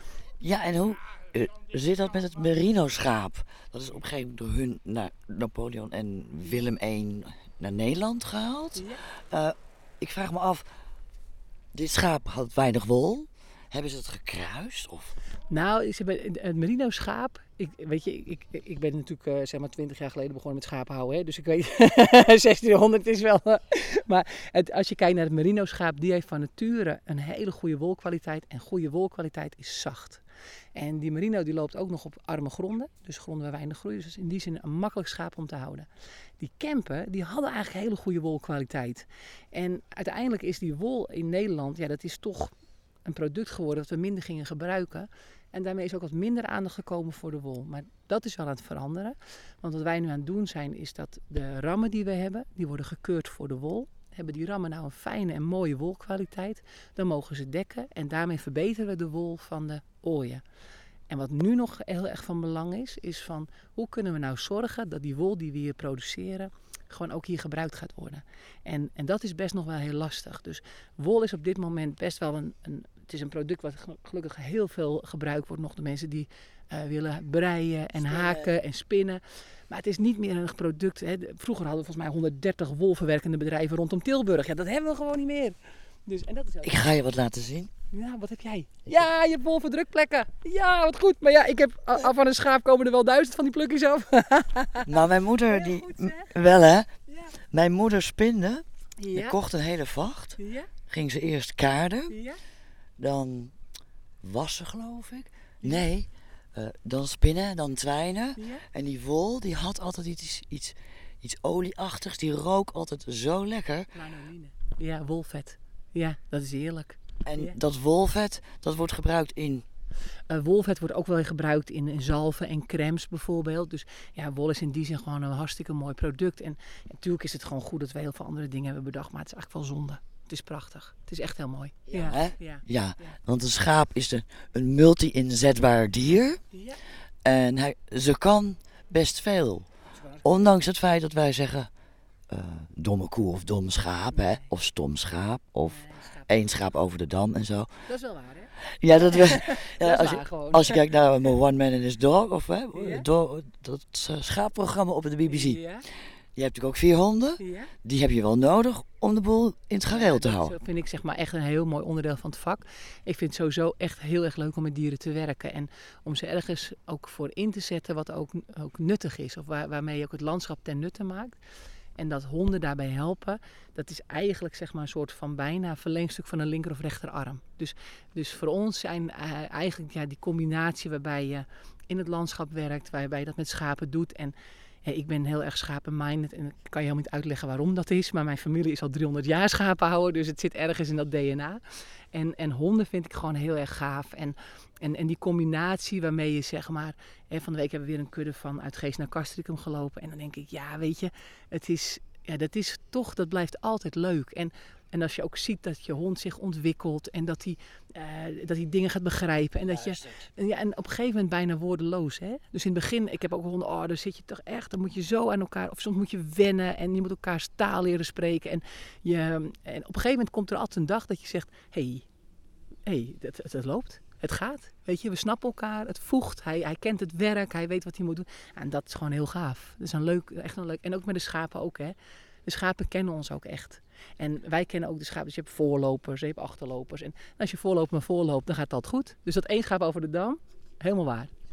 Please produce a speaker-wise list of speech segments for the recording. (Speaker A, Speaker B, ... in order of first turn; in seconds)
Speaker A: 0.4-10.6, 11.7-15.1, 78.0-78.5, 86.6-87.7, 94.8-96.9, 97.4-102.2, 103.0-103.5, 104.2-113.9, 117.2-119.6, 131.9-136.4, 137.2-139.7, 140.2-141.7, 142.3-147.7, 148.7-155.6, 156.3-160.5, 209.7-210.2
Speaker B: 15.5-30.2, 30.8-35.9, 36.4-42.5, 43.0-60.4, 61.1-86.7, 87.9-94.9, 95.5-96.3, 97.1-97.3, 99.0-99.3, 100.4-100.7, 102.1-102.4, 108.4-108.6, 113.9-117.6, 120.3-133.2, 136.5-136.8, 140.0-140.4, 145.7-146.5, 147.9-148.5, 149.0-150.8, 152.7-153.0, 155.2-155.8, 157.4-157.7, 159.9-171.4, 172.0-191.6, 192.1-222.1, 222.8-231.9, 232.4-241.3